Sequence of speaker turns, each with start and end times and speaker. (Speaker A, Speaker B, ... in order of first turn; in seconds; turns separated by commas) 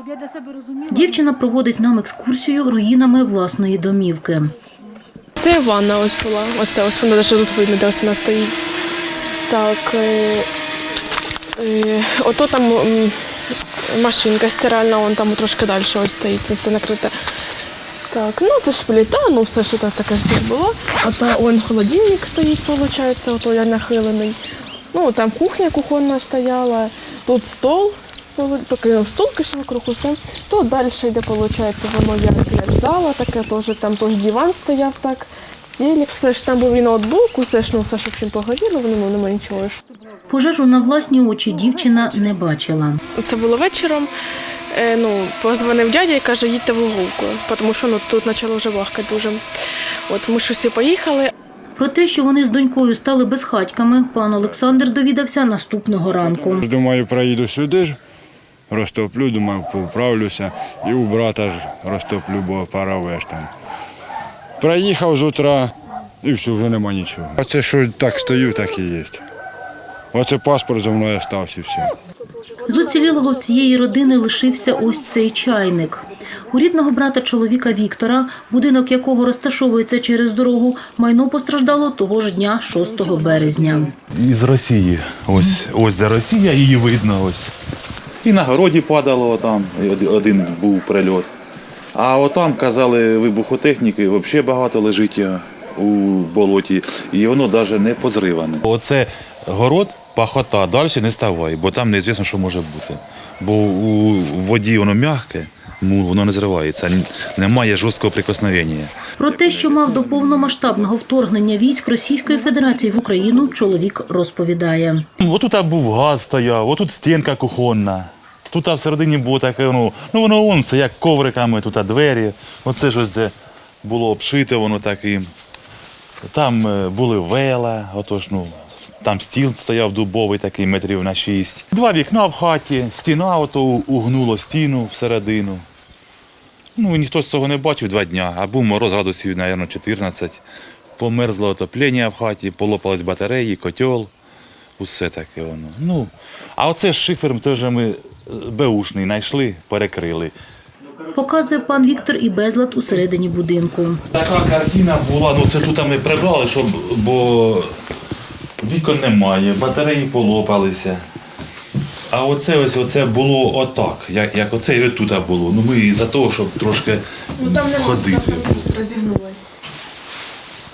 Speaker A: 0.8-4.5, Speaker B: 5.4-8.7, Speaker B: 9.5-10.5, Speaker B: 11.6-17.1, Speaker B: 18.1-24.4, Speaker B: 24.9-39.8, Speaker A: 40.3-43.0, Speaker B: 43.1-44.1, Speaker B: 44.7-49.4, Speaker B: 50.1-51.3, Speaker A: 51.8-56.7, Speaker C: 56.4-58.0, Speaker C: 58.7-63.5, Speaker C: 64.6-69.2, Speaker C: 70.1-72.0, Speaker A: 72.6-83.9, Speaker D: 83.9-87.5, Speaker D: 88.2-91.3, Speaker D: 92.0-111.1, Speaker A: 109.2-115.1, Speaker D: 115.2-125.3, Speaker D: 126.2-135.7, Speaker D: 136.8-140.4, Speaker D: 141.0-144.1, Speaker D: 144.8-150.3, Speaker A: 151.2-154.0, Speaker D: 154.1-157.8, Speaker D: 158.6-161.0, Speaker D: 162.1-168.7, Speaker B: 167.4-169.6